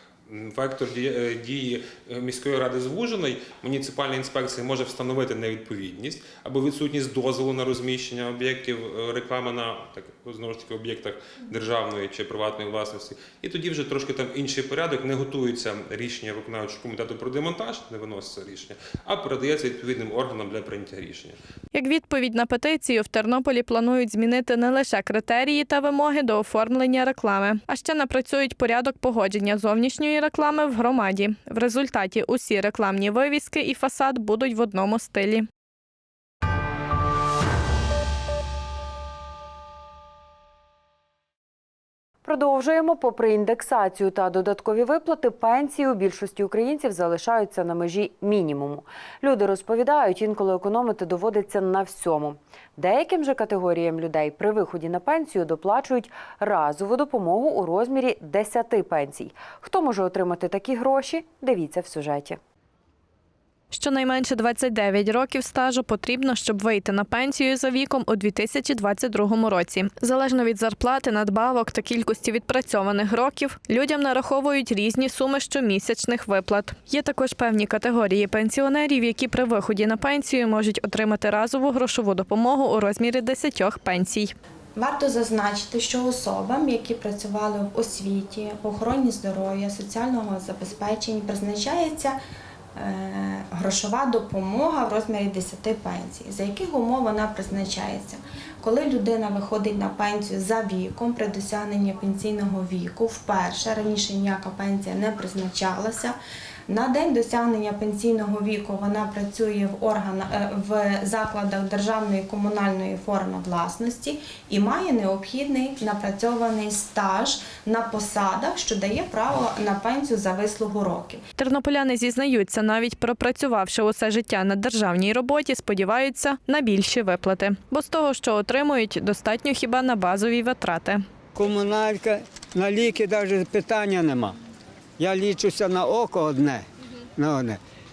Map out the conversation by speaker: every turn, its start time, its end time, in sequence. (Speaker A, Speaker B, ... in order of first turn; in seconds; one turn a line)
Speaker A: 0.3-21.4
Speaker B: 21.7-35.5
Speaker C: 42.2-62.4
Speaker B: 63.7-84.3
Speaker D: 84.8-92.2
Speaker D: 92.8-106.2
Speaker D: 106.7-121.2
Speaker B: 121.4-131.1
Speaker E: 131.3-134.4
Speaker E: 135.0-137.6